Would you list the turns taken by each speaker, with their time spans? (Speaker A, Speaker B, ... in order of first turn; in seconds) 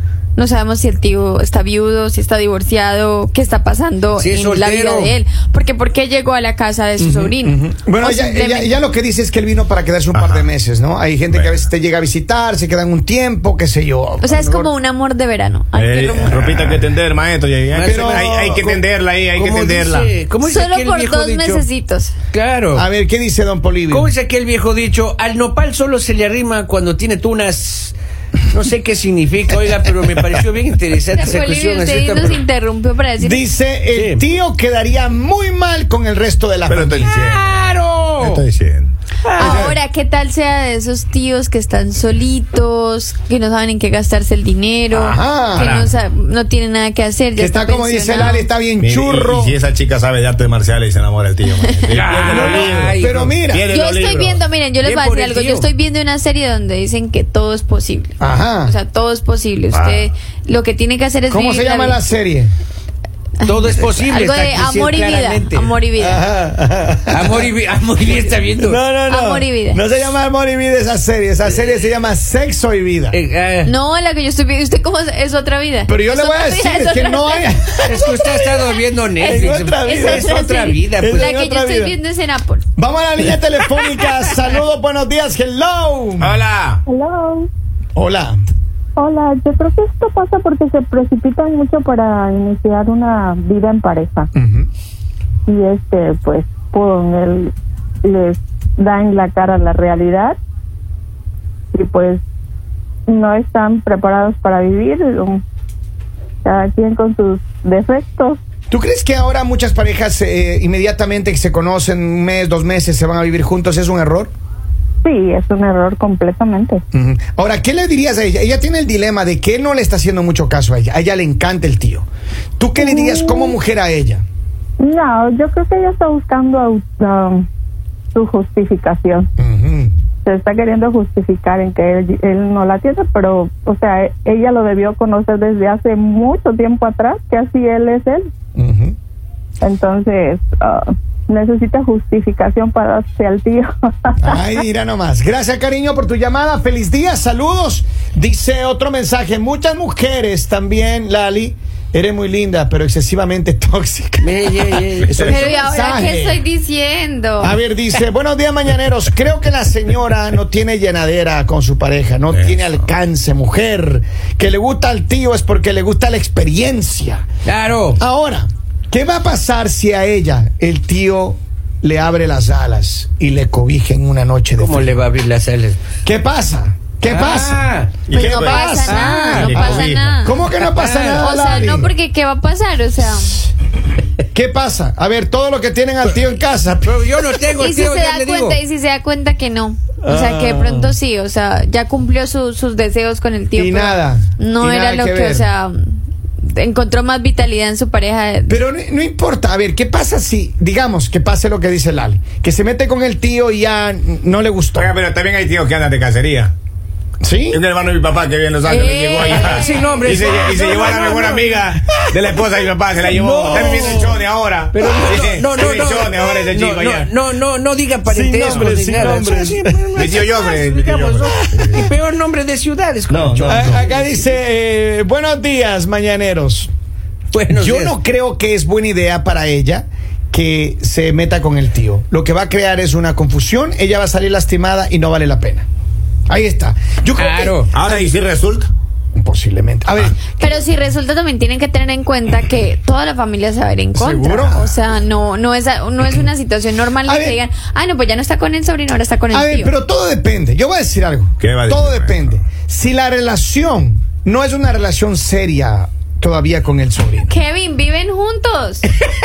Speaker A: 0.4-8.8, 14.2-16.8, 20.4-22.1, 31.1-33.4, 39.4-48.5, 53.7-62.0, 63.4-66.3, 69.1-69.8, 73.7-78.6, 79.2-82.7, 155.2-157.6, 178.1-180.4, 181.2-183.4, 187.6-198.6, 208.7-210.0, 240.4-249.7, 257.3-258.9
Speaker B: 4.2-5.1, 17.7-21.6, 22.3-22.9, 23.9-27.9, 28.5-32.4, 33.9-34.2, 37.0-38.5, 39.2-39.8, 51.9-53.4, 54.8-55.7, 63.4-65.7, 67.1-68.8, 73.1-73.7, 77.8-81.3, 154.2-155.5, 167.5-168.0, 174.6-175.8, 177.1-178.0, 178.7-179.9, 180.6-181.5, 186.8-188.6, 209.1-211.6, 213.1-214.2, 214.7-224.1, 227.3-227.9, 237.2-237.7
Speaker C: 7.0-14.7, 17.9-18.3, 22.7-24.1, 33.2-37.1, 39.4-39.8, 44.9-45.8, 47.4-49.6, 52.2-53.7, 58.2-58.8, 61.3-62.5, 66.0-67.5, 68.6-73.2, 75.9-78.5, 79.2-82.0, 82.8-86.4, 88.0-88.4, 94.3-94.7, 108.7-114.3, 116.9-122.1, 122.6-124.2, 129.4-129.9, 138.6-138.9, 144.2-156.4, 157.4-167.2, 168.0-174.9, 176.0-181.9, 184.3-187.0, 190.0-191.0, 193.5-195.5, 198.5-204.9, 207.2-207.6, 211.9-212.6, 213.2-214.2, 218.1-220.0, 223.4-226.7, 227.5-235.7, 236.3-238.0, 239.2-240.6, 243.9-244.7, 247.1-247.4, 249.3-257.3
Speaker D: 10.1-10.5, 11.3-11.6, 15.7-20.1, 36.7-38.9, 45.6-45.9, 48.8-54.4, 59.7-60.1, 86.2-86.8, 162.3-162.7, 178.1-180.2, 204.8-206.5, 207.5-217.1, 218.4-218.8, 219.9-221.8, 223.1-223.8, 237.7-238.7, 251.4-252.3
Speaker E: 86.9-87.5, 89.0-94.3, 95.5-97.5, 98.0-100.4, 101.7-102.2, 103.1-105.4, 106.5-108.4, 115.0-116.8, 122.8-123.5, 124.8-127.5, 128.1-129.3, 130.2-138.2, 139.6-144.4